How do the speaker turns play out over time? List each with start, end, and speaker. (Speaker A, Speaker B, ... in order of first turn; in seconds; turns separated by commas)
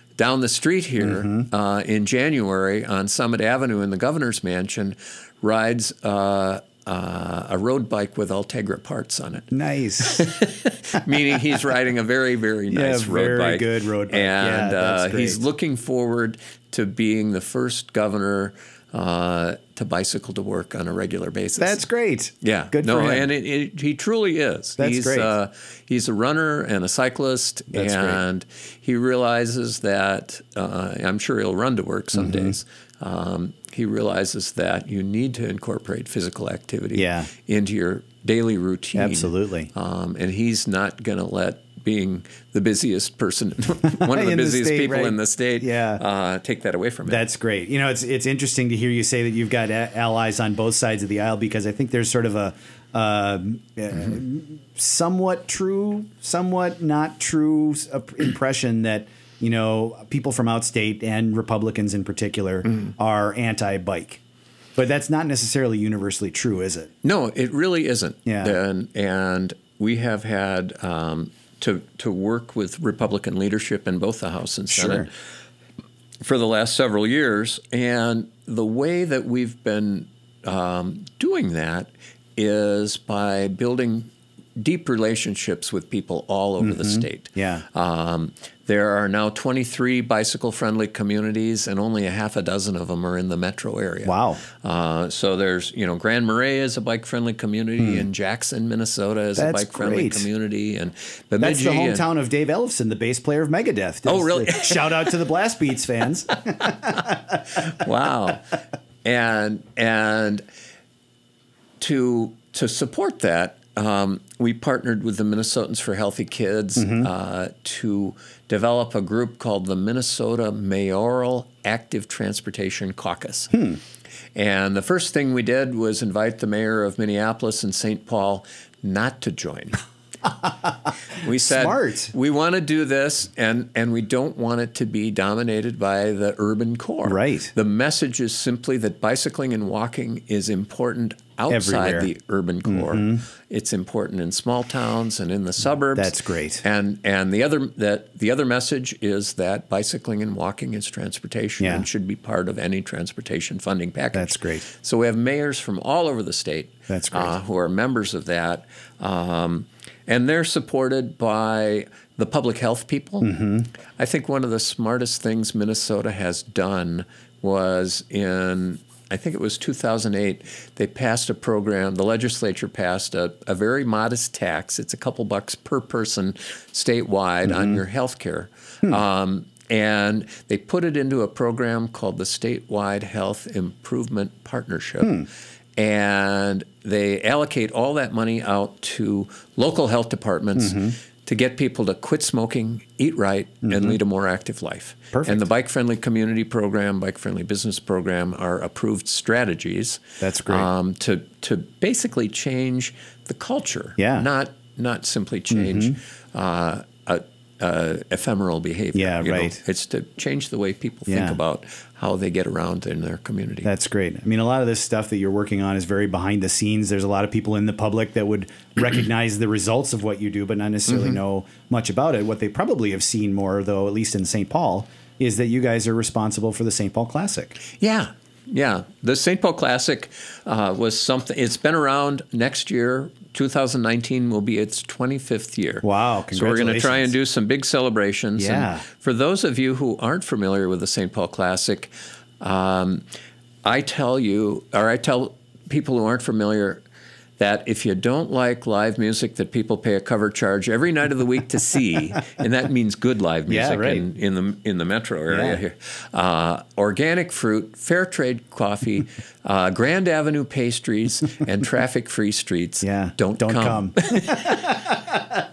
Speaker A: 0.2-9.5, Speaker B: 1.0-1.5, Speaker B: 9.5-10.3, Speaker A: 10.0-21.8, Speaker B: 12.7-15.4, Speaker B: 21.6-23.3, Speaker A: 22.4-47.2, Speaker B: 24.8-25.3, Speaker B: 27.7-28.2, Speaker B: 32.1-32.5, Speaker B: 37.0-37.3, Speaker B: 39.0-39.7, Speaker B: 43.9-46.0, Speaker B: 47.1-64.2, Speaker B: 64.8-66.9, Speaker A: 67.0-75.1, Speaker B: 68.3-68.5, Speaker B: 74.7-75.1, Speaker A: 76.2-102.0, Speaker B: 86.6-87.7, Speaker B: 94.0-94.4, Speaker B: 97.8-98.0, Speaker B: 99.4-100.3, Speaker B: 101.4-107.4, Speaker A: 104.1-105.1, Speaker A: 107.6-108.5, Speaker A: 109.0-110.4, Speaker A: 111.8-123.7, Speaker B: 116.8-117.1, Speaker A: 124.3-129.8, Speaker A: 131.1-163.4, Speaker B: 131.4-132.1, Speaker B: 137.1-137.5, Speaker B: 141.5-142.1, Speaker B: 142.7-143.2, Speaker B: 145.9-146.6, Speaker B: 151.6-151.9, Speaker B: 154.1-154.7, Speaker B: 156.9-157.4, Speaker B: 163.2-163.7, Speaker A: 164.0-213.7, Speaker B: 177.5-177.8, Speaker B: 190.6-190.9, Speaker B: 193.7-194.0, Speaker B: 195.1-195.4, Speaker B: 200.2-200.7, Speaker B: 204.0-204.3, Speaker B: 205.5-206.0, Speaker B: 208.9-209.6, Speaker B: 211.1-211.4, Speaker B: 213.6-227.6, Speaker A: 220.9-221.2, Speaker A: 227.8-243.1, Speaker B: 235.8-237.1, Speaker B: 238.4-238.8, Speaker A: 243.6-246.8, Speaker A: 247.4-264.9, Speaker B: 253.5-254.0, Speaker B: 255.3-255.6, Speaker B: 262.8-265.4